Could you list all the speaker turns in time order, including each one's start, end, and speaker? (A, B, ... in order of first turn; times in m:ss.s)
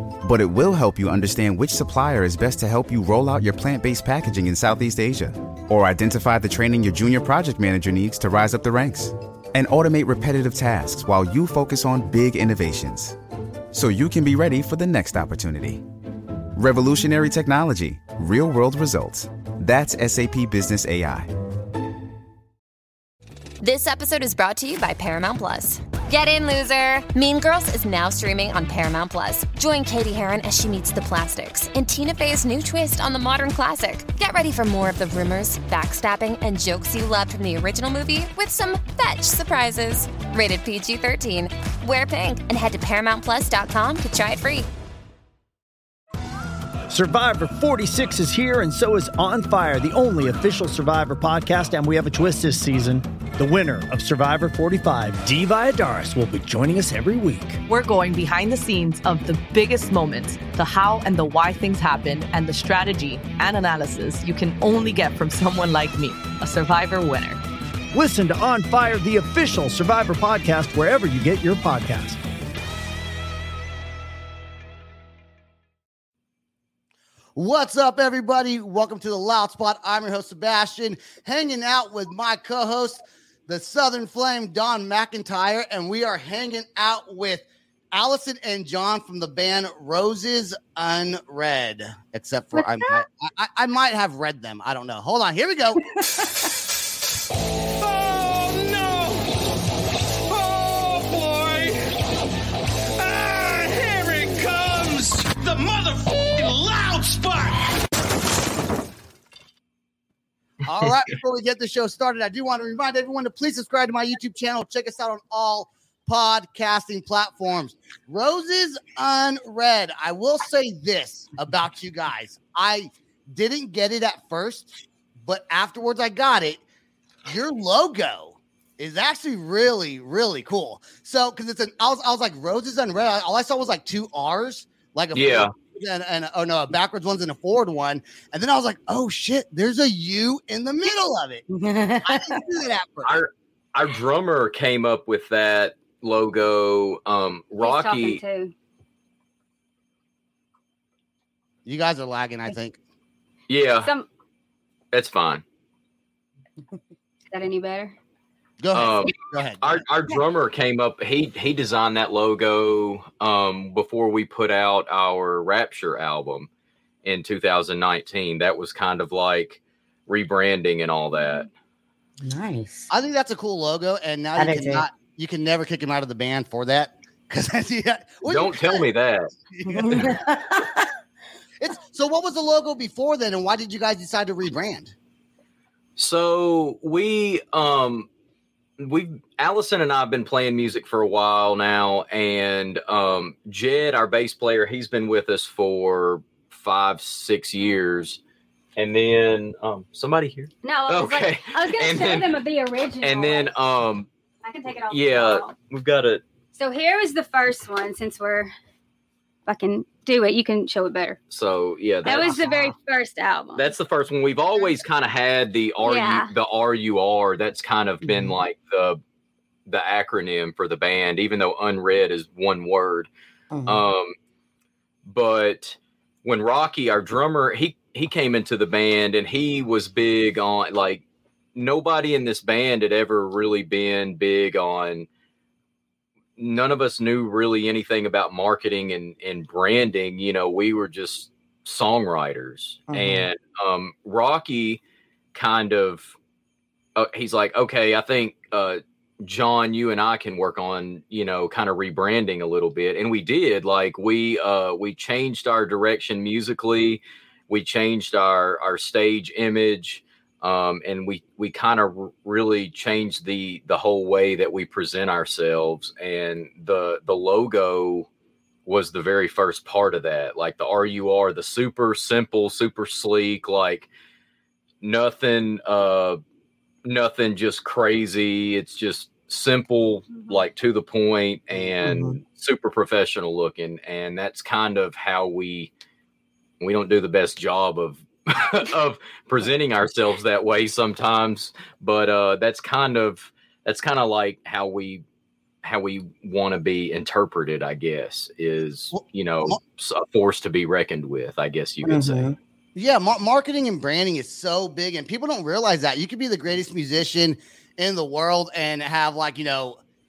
0:00.2-0:13.2 A
0:13.7-0:15.8 A
0:16.5-0:21.3 A
0:23.6-0:44.7 B
0:46.9-0:57.6 C
0:57.7-1:07.4 D
1:07.9-1:12.2 C
1:17.4-1:35.8 E
1:32.5-1:33.0 F
1:37.8-1:39.4 G
1:40.2-1:42.0 G
1:43.0-1:47.8 G
1:50.6-2:04.7 E
2:05.2-2:06.6 E
2:07.2-2:21.4 E
2:15.1-2:15.5 H
2:21.5-2:22.4 I
2:22.0-2:23.2 E
2:23.0-2:28.2 H
2:27.6-2:28.5 F
2:31.6-2:32.8 E
2:33.5-2:33.9 H
2:34.9-2:35.4 H
2:37.3-2:38.0 F
2:38.6-2:39.8 E
2:38.7-2:46.5 H
2:47.0-2:51.5 H
2:51.2-2:51.4 F
2:52.2-2:52.9 I
2:52.9-2:58.8 E
2:54.3-2:54.8 I
2:58.2-2:59.3 H
2:59.5-3:00.1 E
2:59.7-3:00.8 I
3:01.6-3:04.9 E
3:06.0-3:08.1 H
3:08.8-3:18.2 H
3:18.8-3:22.3 H
3:20.6-3:23.5 F
3:23.0-3:24.1 H
3:24.4-3:25.5 F
3:24.9-3:26.2 H
3:26.5-3:28.5 F
3:29.5-3:31.2 F
3:31.3-3:32.5 H
3:32.0-3:33.7 F
3:33.6-3:39.0 H
3:35.8-3:36.3 F
3:38.0-3:38.4 I
3:39.7-3:43.1 H
3:43.5-3:43.8 I
3:43.6-3:44.1 H
3:45.0-3:51.0 H
3:51.5-3:55.1 H
3:56.4-4:04.8 H
4:02.9-4:03.3 I
4:05.3-4:06.1 H
4:07.0-4:28.1 H
4:28.6-4:33.9 H
4:34.8-4:36.2 H
4:36.8-4:45.7 H
4:40.1-4:40.4 F
4:41.8-4:42.2 I
4:46.6-4:55.0 H
4:55.6-5:02.3 H
4:58.9-4:59.6 E
5:01.8-5:02.4 I
5:02.7-5:09.8 E